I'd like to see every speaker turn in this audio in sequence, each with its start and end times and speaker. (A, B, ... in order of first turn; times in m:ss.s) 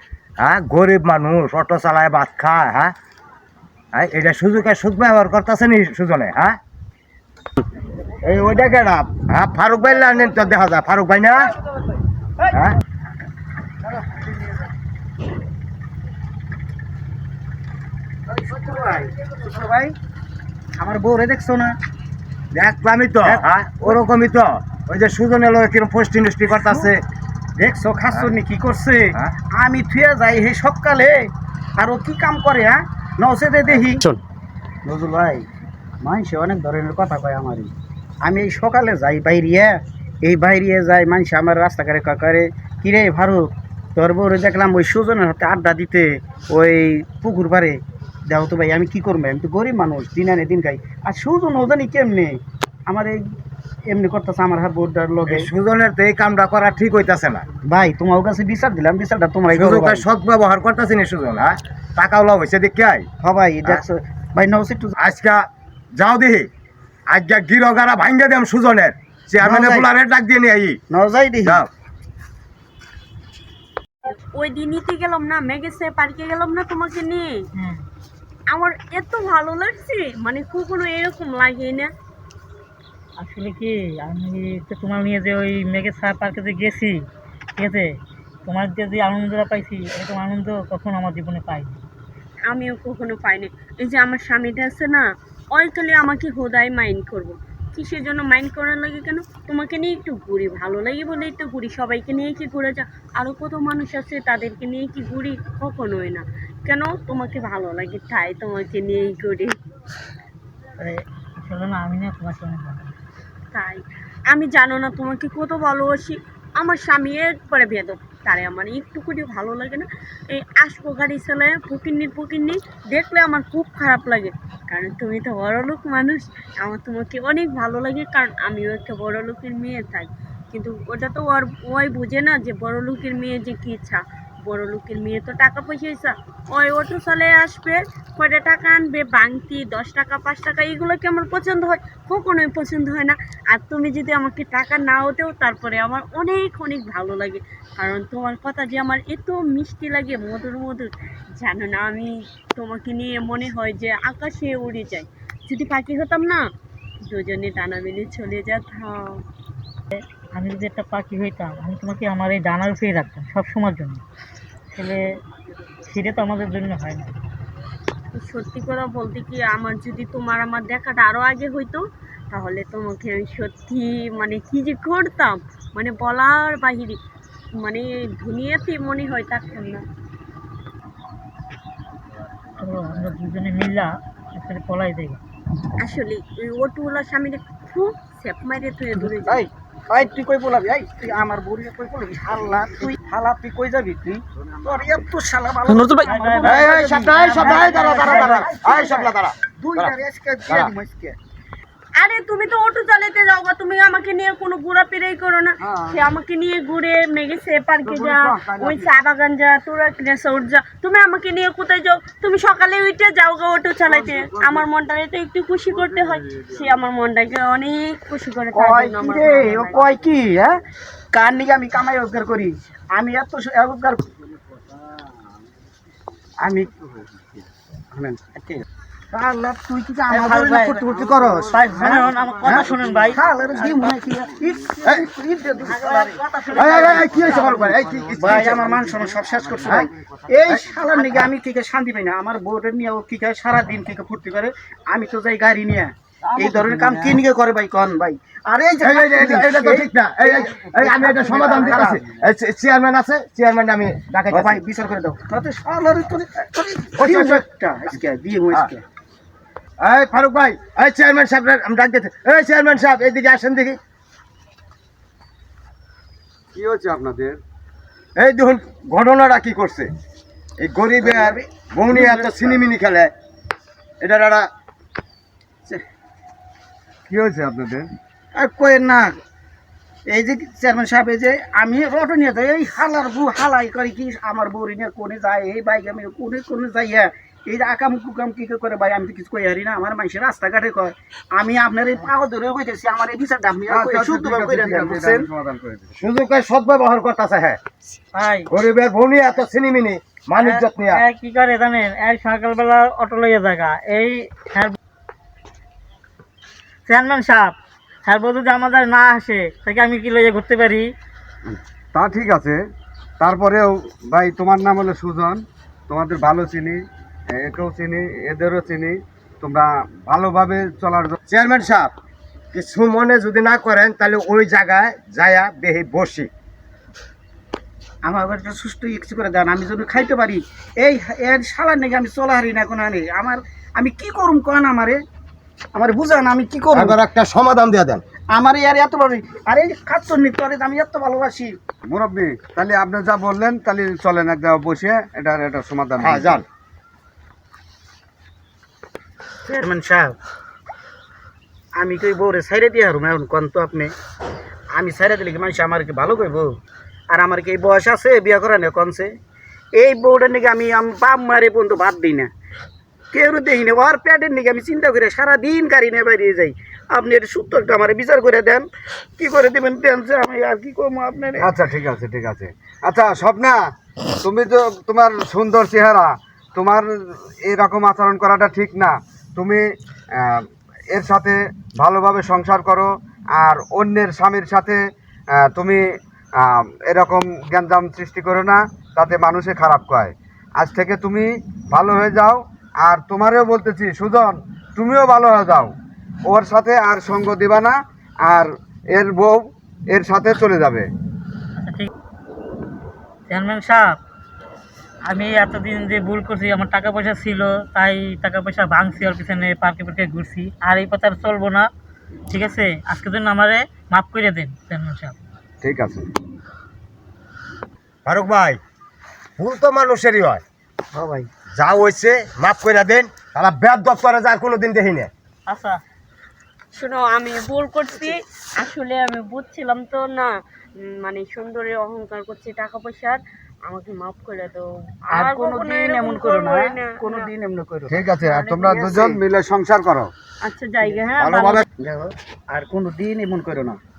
0:00.4-0:02.9 A
0:03.9-0:06.6 A
0:08.2-0:11.4 A
0:12.5-0:12.8 A
0:18.3-0:19.9 B
0:20.8-0:21.7 B
0:22.5-0:27.0 A
0:23.2-0:24.0 B
0:26.4-0:26.9 B
0:27.6-0:34.1 B
0:34.8-0:35.4 B
0:36.0-0:37.7 B
0:38.2-0:53.2 B
0:53.9-0:55.5 B
0:55.3-0:57.4 A
0:57.6-1:00.0 B
0:59.5-1:03.0 A
1:03.2-1:04.9 B
1:05.0-1:05.4 A
1:05.9-1:06.5 A
1:07.1-1:10.8 A
1:09.4-1:09.9 B
1:10.9-1:11.7 B
1:14.1-1:17.4 C
1:17.6-1:17.8 D
1:18.5-1:21.9 C
1:23.2-1:27.0 D
1:27.6-1:27.9 D
1:28.4-1:31.8 D
1:32.5-1:49.5 C
1:50.8-1:52.9 D
1:53.5-2:36.5 C
2:37.1-2:39.2 C
2:39.9-2:44.0 D
2:44.7-2:45.0 D
2:45.9-2:47.1 D
2:48.1-2:57.0 C
2:57.6-2:59.8 C
3:02.6-3:05.2 D
3:05.8-3:09.5 C
3:09.2-3:21.2 B
3:16.0-3:16.7 D
3:16.4-3:19.9 A
3:17.2-3:18.4 D
3:22.0-3:40.0 C
3:27.9-3:28.8 E
3:38.5-3:40.6 B
3:41.1-3:44.0 B
3:46.4-3:47.0 B
3:47.9-3:56.2 B
3:50.1-3:50.8 D
3:51.5-3:53.7 D
3:55.8-3:57.6 D
3:56.5-3:58.7 A
3:56.8-4:12.2 B
4:06.3-4:07.0 E
4:08.8-4:14.6 A
4:14.3-4:18.8 B
4:17.0-4:17.4 A
4:19.8-4:23.8 A
4:26.5-4:27.4 E
4:28.2-4:29.9 A
4:30.6-4:33.1 A
4:31.0-4:32.6 B
4:34.0-4:34.5 A
4:37.1-4:37.9 E
4:38.3-4:39.2 B
4:40.1-4:55.2 B
4:53.7-4:55.9 E
4:56.0-4:57.6 A
4:58.1-4:58.5 D
4:58.5-5:01.0 A
5:00.4-5:04.8 D
5:06.9-5:10.9 D
5:11.5-5:12.6 E
5:13.2-5:16.8 E
5:17.3-5:21.2 E
5:21.3-5:21.9 A
5:22.5-5:26.3 A
5:28.0-5:35.0 B
5:35.7-5:37.0 B
5:36.7-5:38.0 A
5:38.3-5:41.6 B
5:41.9-5:46.4 E
5:46.0-5:46.4 A
5:49.4-5:50.2 B
5:51.8-5:53.9 B
5:54.7-5:56.6 B
5:57.1-5:59.1 B
5:59.7-6:02.3 B
6:03.1-6:08.7 B
6:09.2-6:11.5 B
6:11.4-6:13.6 E
6:14.2-6:24.8 E
6:25.4-6:25.8 E
6:26.4-6:35.7 E
6:36.3-6:40.9 E
6:41.6-6:41.9 D
6:43.3-6:44.0 D
6:45.0-6:51.7 D
6:52.3-6:55.2 D
6:55.6-6:56.0 E
6:58.0-6:58.6 A
6:59.4-7:00.4 A
7:00.9-7:01.3 B
7:01.6-7:05.1 A
7:05.5-7:05.8 D
7:06.7-7:17.3 C
7:15.1-7:18.0 B
7:17.9-7:20.1 E
7:18.2-7:18.8 C
7:18.7-7:19.2 B
7:20.4-7:21.6 C
7:21.2-7:21.6 A
7:21.8-7:23.8 B